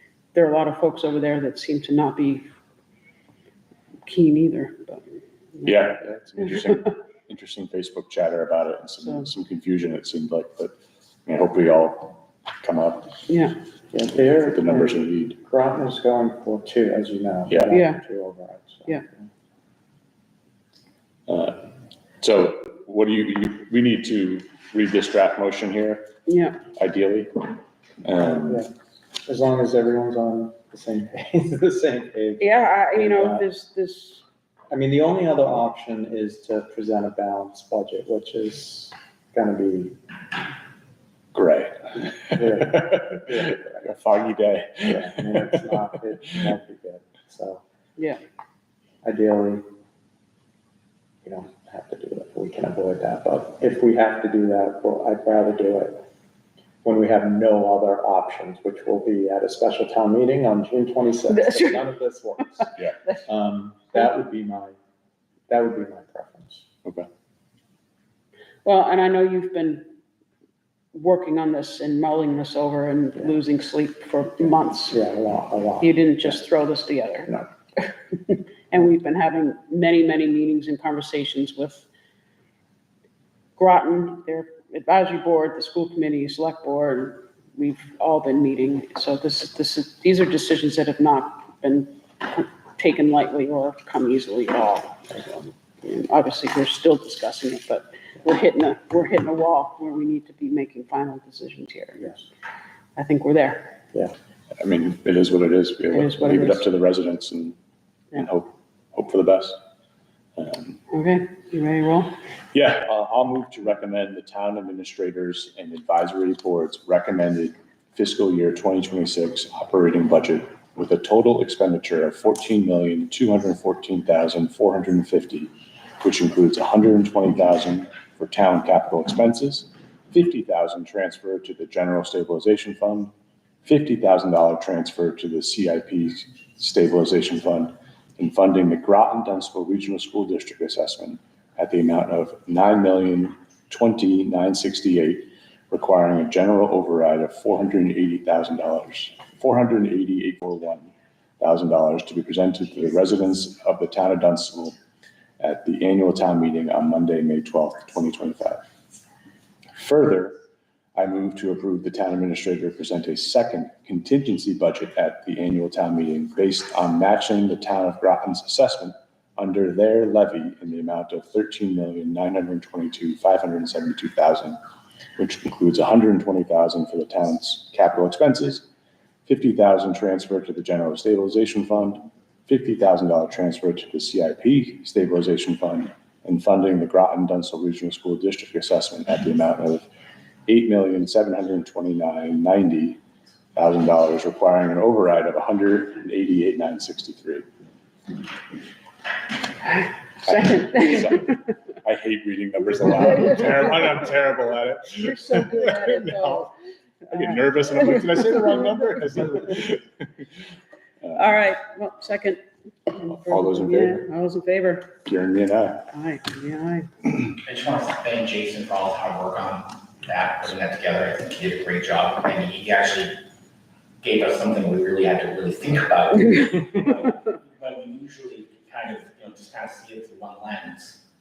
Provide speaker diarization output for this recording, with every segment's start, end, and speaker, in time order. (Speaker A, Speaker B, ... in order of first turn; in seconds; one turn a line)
Speaker A: 0.3-2.5
Speaker A: 4.0-5.7
Speaker B: 5.6-10.7
Speaker B: 11.2-13.2
Speaker A: 13.3-13.6
Speaker C: 13.9-19.3
Speaker B: 14.4-15.4
Speaker A: 17.7-18.0
Speaker B: 21.3-21.7
Speaker B: 22.2-26.1
Speaker A: 26.3-26.6
Speaker B: 26.7-28.6
Speaker C: 28.4-28.7
Speaker C: 29.2-33.5
Speaker A: 32.4-34.2
Speaker C: 34.7-40.0
Speaker B: 41.3-45.6
Speaker C: 42.3-43.9
Speaker C: 44.9-47.6
Speaker C: 49.0-49.6
Speaker C: 51.2-56.0
Speaker C: 56.8-64.7
Speaker A: 61.3-61.9
Speaker C: 65.5-66.6
Speaker A: 68.6-69.8
Speaker A: 70.9-75.0
Speaker C: 74.9-76.4
Speaker A: 75.8-81.9
Speaker A: 83.6-102.2
Speaker A: 103.0-103.8
Speaker B: 104.6-107.5
Speaker A: 105.9-106.7
Speaker B: 108.1-109.6
Speaker B: 110.4-110.8
Speaker A: 110.9-112.1
Speaker B: 112.5-133.1
Speaker B: 133.6-154.8
Speaker B: 155.4-158.6
Speaker B: 159.8-160.3
Speaker B: 160.9-174.6
Speaker B: 175.2-178.7
Speaker B: 179.3-189.9
Speaker B: 190.5-193.0
Speaker B: 193.5-197.4
Speaker A: 199.6-201.2
Speaker B: 200.2-206.5
Speaker A: 205.0-206.5
Speaker B: 207.1-210.0
Speaker A: 207.1-209.0
Speaker B: 211.0-211.4
Speaker A: 211.1-215.0
Speaker B: 213.0-214.0
Speaker B: 215.0-215.9
Speaker A: 215.9-216.9
Speaker D: 217.4-223.2
Speaker D: 224.0-231.0